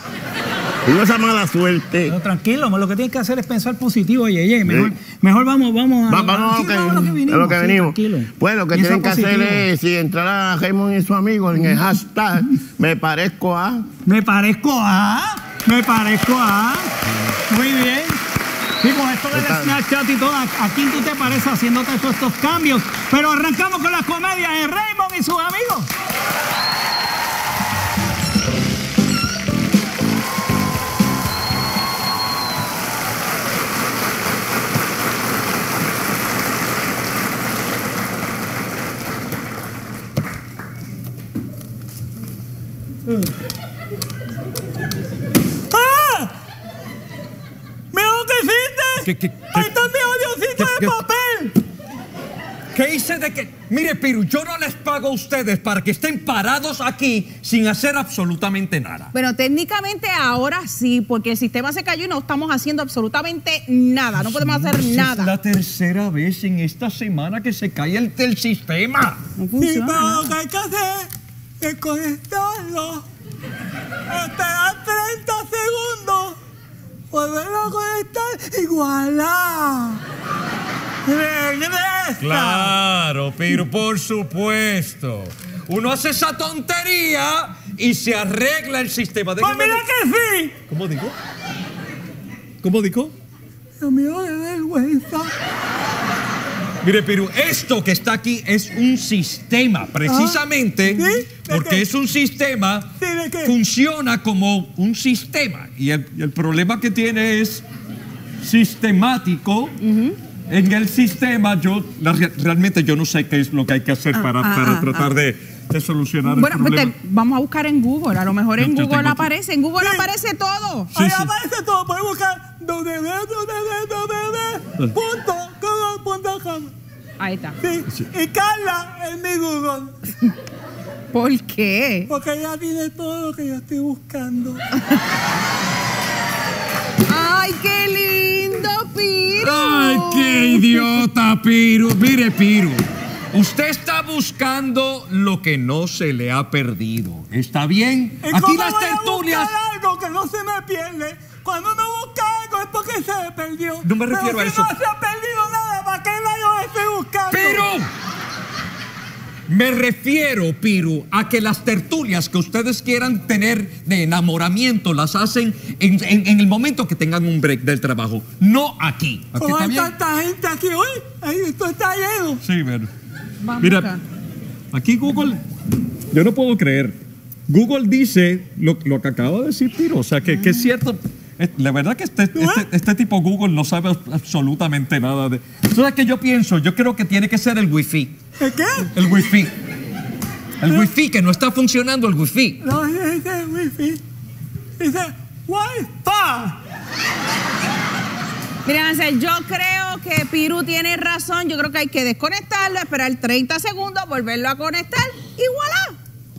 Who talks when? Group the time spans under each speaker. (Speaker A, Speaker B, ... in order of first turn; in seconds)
Speaker A: 0.8-2.1, 4.6-4.9, 6.1-13.9, 19.3-19.8
Speaker B: 2.1-9.6, 14.0-16.9, 17.5-18.2, 18.8-25.9
Speaker C: 45.7-46.3, 47.9-51.5, 69.6-71.1, 71.6-73.0, 74.1-76.3, 77.1-80.0, 81.1-82.7, 89.4-90.5, 93.8-95.3, 100.0-101.8, 103.0-103.5, 119.8-120.1, 120.9-126.7, 127.6-129.9, 132.1-134.6, 148.2-157.7, 169.3-172.4, 182.3-182.6, 188.4-188.9, 192.6-194.0, 194.8-196.6
Speaker D: 49.0-49.9, 50.5-51.0, 52.7-59.1, 64.1-69.2, 82.2-89.8, 90.7-91.1, 92.6-93.1, 96.8-107.6, 108.4-109.8, 110.5-116.9, 118.6-119.3, 120.9-121.3, 139.3-149.5, 153.8-154.7, 157.3-157.9, 159.5-169.9, 172.4-172.9, 173.6-174.0, 174.7-175.4, 176.1-188.1, 188.9-189.5, 190.6-192.6
Speaker E: 59.1-65.3, 69.4-70.2, 109.8-110.2, 114.2-115.1, 116.3-120.9, 127.2-127.6, 131.1-132.1, 137.1-140.7, 173.4-174.0, 198.6-205.9